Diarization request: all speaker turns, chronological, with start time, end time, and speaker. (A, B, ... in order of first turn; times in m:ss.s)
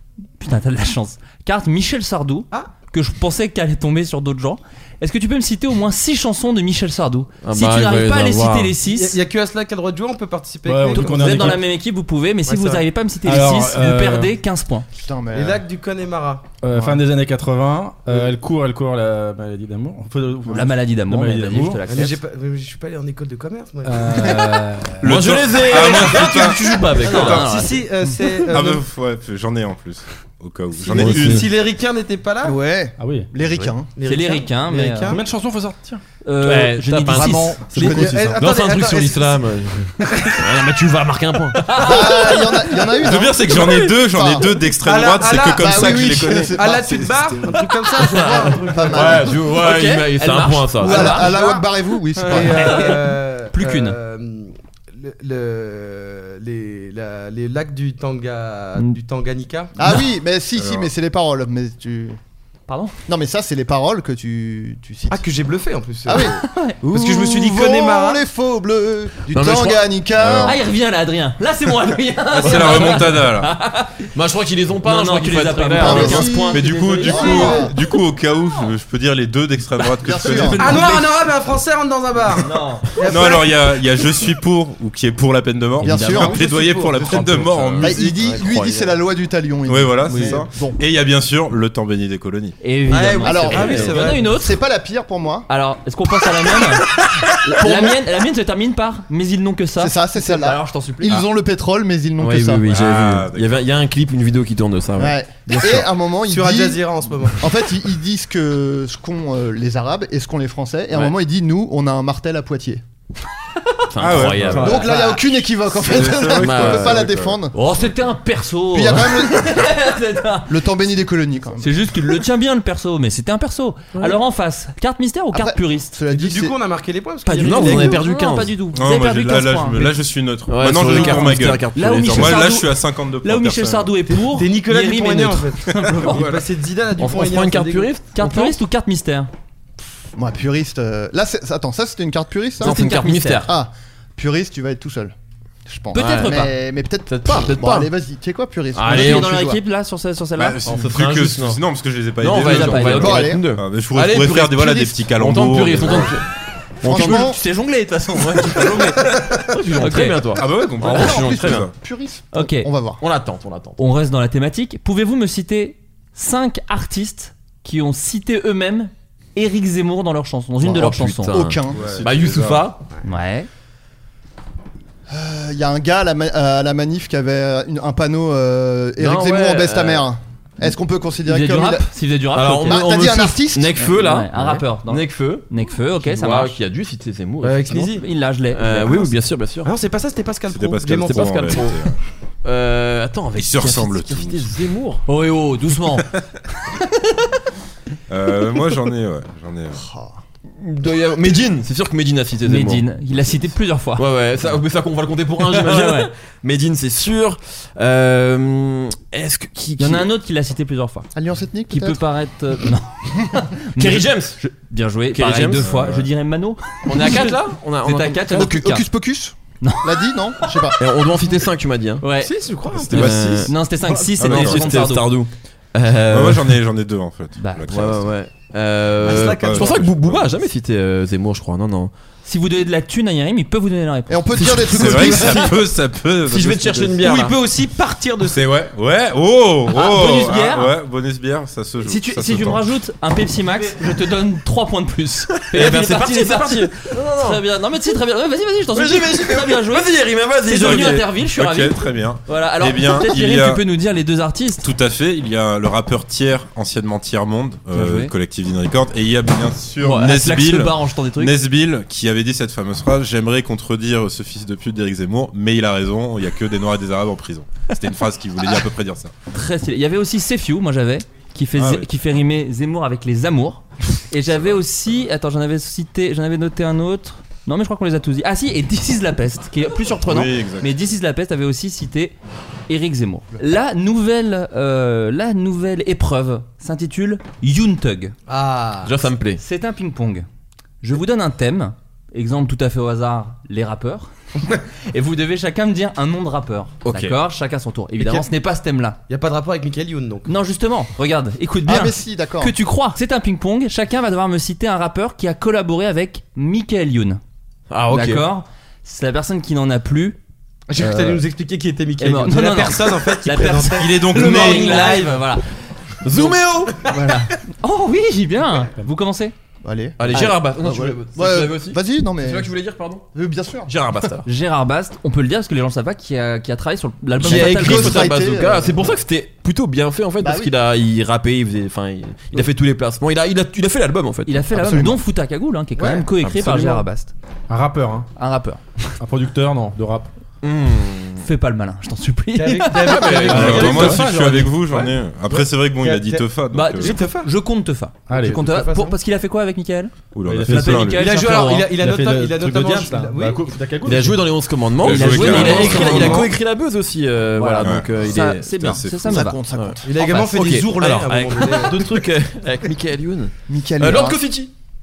0:00.4-0:09.2 A
0:07.4-0:08.8 B
0:08.8-0:11.6 C
0:10.6-0:11.6 D
0:10.9-0:14.9 A
0:12.5-0:12.8 C
0:13.2-0:14.3 D
0:14.9-0:15.6 E
0:15.3-0:16.5 C
0:16.6-0:21.9 D
0:20.5-0:22.2 A
0:21.9-0:24.5 C
0:23.8-0:25.1 D
0:25.0-0:27.4 F
0:25.1-0:27.5 B
0:27.0-0:27.8 A
0:27.3-0:28.8 C
0:28.5-0:31.5 F
0:30.8-0:32.6 C
0:30.9-0:31.5 D
0:32.4-0:33.9 E
0:33.0-0:33.3 D
0:34.0-0:35.2 C
0:34.0-0:35.2 A
0:35.1-0:36.0 D
0:36.2-0:37.6 A
0:36.4-0:42.3 B
0:37.5-0:38.3 E
0:37.6-0:38.3 D
0:37.8-0:39.4 C
0:40.0-0:40.3 C
0:41.6-0:42.5 A
0:41.8-0:44.5 E
0:43.0-0:47.1 F
0:43.5-0:44.0 B
0:44.8-0:49.4 C
0:45.5-0:47.4 E
0:47.9-0:51.4 B
0:48.7-0:49.3 E
0:49.4-0:51.6 A
0:50.8-0:52.8 E
0:51.3-0:51.6 C
0:52.2-0:59.8 C
0:52.2-0:54.0 A
0:59.8-1:02.2 E
1:00.6-1:00.9 F
1:02.7-1:02.9 A
1:03.1-1:05.2 E
1:05.1-1:08.2 C
1:06.0-1:10.6 E
1:06.3-1:06.8 A
1:09.3-1:09.9 B
1:10.2-1:10.6 F
1:10.4-1:14.0 A
1:12.3-1:13.5 F
1:12.4-1:13.0 B
1:14.1-1:16.4 B
1:14.8-1:17.7 A
1:15.8-1:17.7 E
1:16.3-1:20.9 F
1:20.0-1:20.8 E
1:20.2-1:21.2 A
1:20.6-1:23.8 C
1:22.3-1:23.0 A
1:23.0-1:28.2 F
1:25.8-1:27.3 E
1:25.9-1:26.2 B
1:26.4-1:27.4 C
1:27.1-1:29.0 B
1:27.8-1:30.8 E
1:29.6-1:32.6 F
1:32.6-1:34.6 A
1:32.9-1:34.3 C
1:33.2-1:35.5 E
1:33.5-1:34.1 B
1:35.5-1:41.2 A
1:39.8-1:42.7 E
1:42.2-1:45.9 B
1:42.7-1:43.6 F
1:45.0-1:52.8 E
1:46.2-1:47.4 C
1:53.9-1:54.9 B
1:54.0-1:54.9 F
1:54.6-1:57.5 E
1:54.7-1:55.2 C
1:55.7-1:57.4 F
1:56.3-1:57.1 B
1:57.5-2:00.5 A
1:58.7-1:59.8 E
2:00.4-2:01.8 E
2:01.6-2:05.9 A
2:05.3-2:06.6 E
2:06.0-2:08.0 C
2:07.2-2:09.9 A
2:07.4-2:08.6 B
2:08.7-2:14.0 F
2:10.5-2:12.5 B
2:10.8-2:16.3 A
2:14.1-2:17.9 C
2:15.8-2:16.4 F
2:17.0-2:18.6 B
2:18.1-2:19.3 A
2:20.1-2:22.9 E
2:22.6-2:23.5 A
2:22.6-2:23.5 B
2:23.4-2:25.1 E
2:25.6-2:29.6 E
2:25.9-2:26.5 A
2:25.9-2:26.5 B
2:27.0-2:27.9 B
2:28.7-2:29.5 B
2:28.8-2:30.6 A
2:30.4-2:36.2 F
2:30.6-2:31.6 B
2:32.2-2:36.3 B
2:32.4-2:33.2 A
2:32.8-2:33.5 E
2:36.8-2:37.4 B
2:36.8-2:37.4 E
2:36.8-2:39.2 A
2:38.2-2:41.7 B
2:39.8-2:40.2 A
2:40.4-2:41.7 F
2:40.8-2:43.0 E
2:42.3-2:42.7 A
2:43.0-2:43.8 B
2:43.8-2:51.4 A
2:50.6-2:52.8 B
2:50.8-2:51.9 E
2:51.7-2:52.7 F
2:53.0-2:53.5 A
2:55.1-3:01.9 E
2:59.0-3:00.1 B
3:01.2-3:02.9 A
3:02.3-3:08.0 B
3:02.7-3:03.9 E
3:03.8-3:06.6 A
3:07.4-3:08.0 C
3:07.8-3:09.1 A
3:08.5-3:09.7 B
3:09.6-3:11.3 C
3:10.5-3:12.0 F
3:11.0-3:11.8 B
3:12.4-3:15.0 B
3:13.4-3:14.6 F
3:15.0-3:16.1 A
3:18.1-3:19.8 F
3:19.7-3:20.2 E
3:20.5-3:23.0 B
3:22.4-3:24.0 A
3:24.0-3:30.1 B
3:25.5-3:26.1 A
3:29.8-3:31.1 A
3:31.1-3:32.0 E
3:31.7-3:38.8 A
3:33.8-3:34.4 B
3:35.1-3:35.7 B
3:35.6-3:36.1 F
3:36.8-3:38.8 B
3:38.3-3:40.8 E
3:39.6-3:40.6 A
3:40.8-3:42.0 B
3:42.0-3:42.3 A
3:42.2-3:43.1 C
3:42.7-3:46.6 B
3:42.8-3:43.5 F
3:42.9-3:45.1 A
3:44.2-3:44.8 F
3:46.1-3:48.1 F
3:47.4-3:47.6 A
3:47.7-3:51.9 B
3:49.0-3:50.3 F
3:49.0-3:49.9 C
3:52.2-3:54.9 A
3:54.1-3:55.6 E
3:54.4-3:55.6 B
3:54.5-3:57.1 F
3:56.2-3:57.4 B
3:57.0-3:58.5 C
3:58.3-4:02.6 F
3:59.7-4:00.7 A
4:01.8-4:14.6 A
4:05.5-4:07.4 B
4:08.7-4:11.1 B
4:10.5-4:13.6 F
4:14.6-4:29.1 F
4:17.7-4:18.1 A
4:19.8-4:21.4 A
4:29.3-4:42.1 A
4:31.6-4:31.9 F
4:34.3-4:35.0 F
4:40.0-4:40.7 F
4:42.7-4:48.1 A
4:48.3-4:49.0 C
4:48.8-4:49.4 B
4:49.4-4:50.3 A
4:50.8-4:54.1 A
4:54.9-4:59.0 A
4:56.8-4:57.2 B
4:58.0-4:58.3 C
4:59.1-5:00.3 C
5:00.2-5:07.2 A
5:01.6-5:02.5 E
5:07.7-5:08.3 B
5:07.9-5:10.2 A
5:10.7-5:15.2 C
5:12.0-5:15.5 A
5:13.7-5:14.9 F
5:16.0-5:16.8 B
5:16.1-5:19.3 A
5:16.9-5:17.2 E
5:19.6-5:22.5 E
5:20.0-5:23.0 B
5:23.1-5:23.7 E
5:23.6-5:24.3 B
5:24.2-5:28.1 A
5:27.2-5:34.5 B
5:27.2-5:29.0 E
5:30.2-5:30.5 E
5:34.2-5:37.1 A
5:34.5-5:35.0 E
5:35.8-5:36.1 C
5:36.2-5:36.8 B
5:37.5-5:38.1 D
5:38.2-5:38.9 A
5:39.0-5:40.1 D
5:40.4-5:41.2 B
5:41.2-5:43.2 A
5:42.3-5:44.1 C
5:42.7-5:44.0 B
5:43.3-5:44.8 D
5:43.3-5:47.0 F
5:45.2-5:47.3 C
5:46.5-5:51.7 A
5:48.1-5:48.4 D
5:48.3-5:48.9 C
5:50.1-5:51.1 F
5:50.2-5:54.4 D
5:51.0-5:53.5 C
5:53.8-5:58.8 B
5:54.8-5:56.2 F
5:54.8-5:56.2 A
5:55.8-5:56.3 C
5:57.6-5:59.4 F
5:58.0-5:59.4 A
5:59.0-5:59.9 E
5:59.5-6:04.5 B
5:59.8-6:01.9 C
5:59.9-6:00.7 A
6:03.5-6:04.2 E